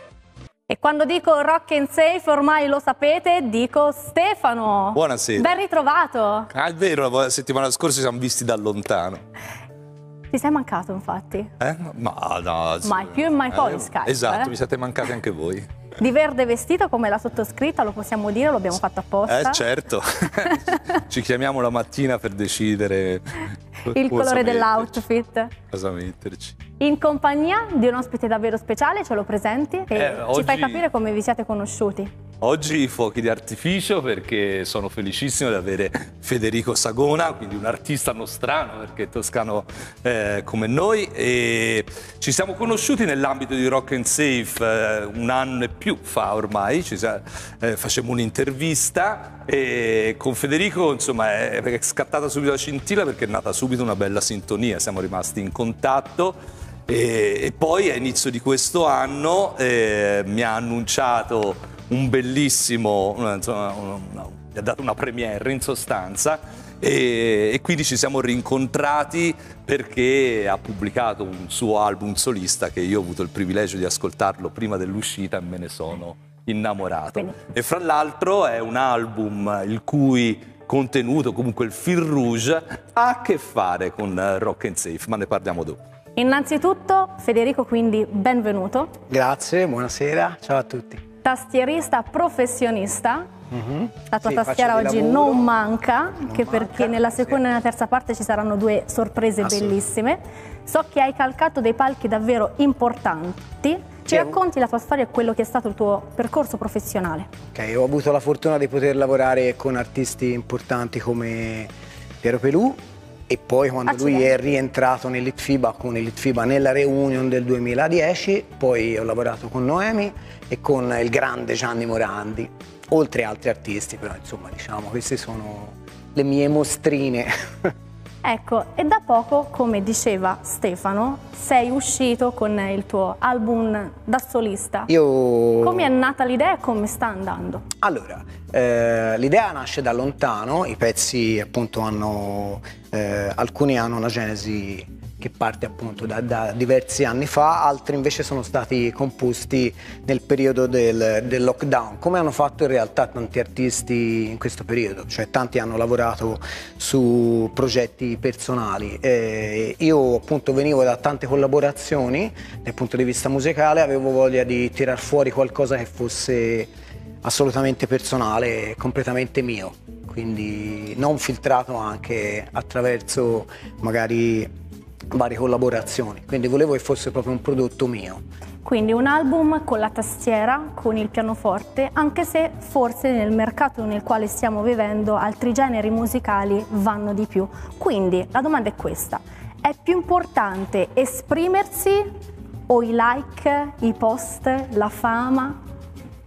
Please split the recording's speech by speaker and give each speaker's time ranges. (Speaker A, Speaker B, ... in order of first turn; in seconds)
Speaker A: 0.7-6.5, 10.3-11.5, 12.8-14.5, 16.0-19.6, 23.9-25.5, 26.8-32.1, 86.2-88.9, 91.2-93.3, 94.1-107.3, 113.9-114.3, 128.2-134.9, 135.6-137.6, 178.6-192.1, 192.7-195.6
Speaker B: 4.9-5.5, 6.5-9.2, 11.6-15.7, 19.3-25.0, 25.7-26.6, 29.9-30.8, 32.4-56.4, 56.9-85.8
Speaker C: 89.1-91.0, 93.5-95.5, 96.1-97.4, 99.4-99.7, 104.1-104.4, 107.5-111.7, 112.2-127.7, 134.9-135.9, 137.8-166.7, 167.2-174.5, 175.1-178.2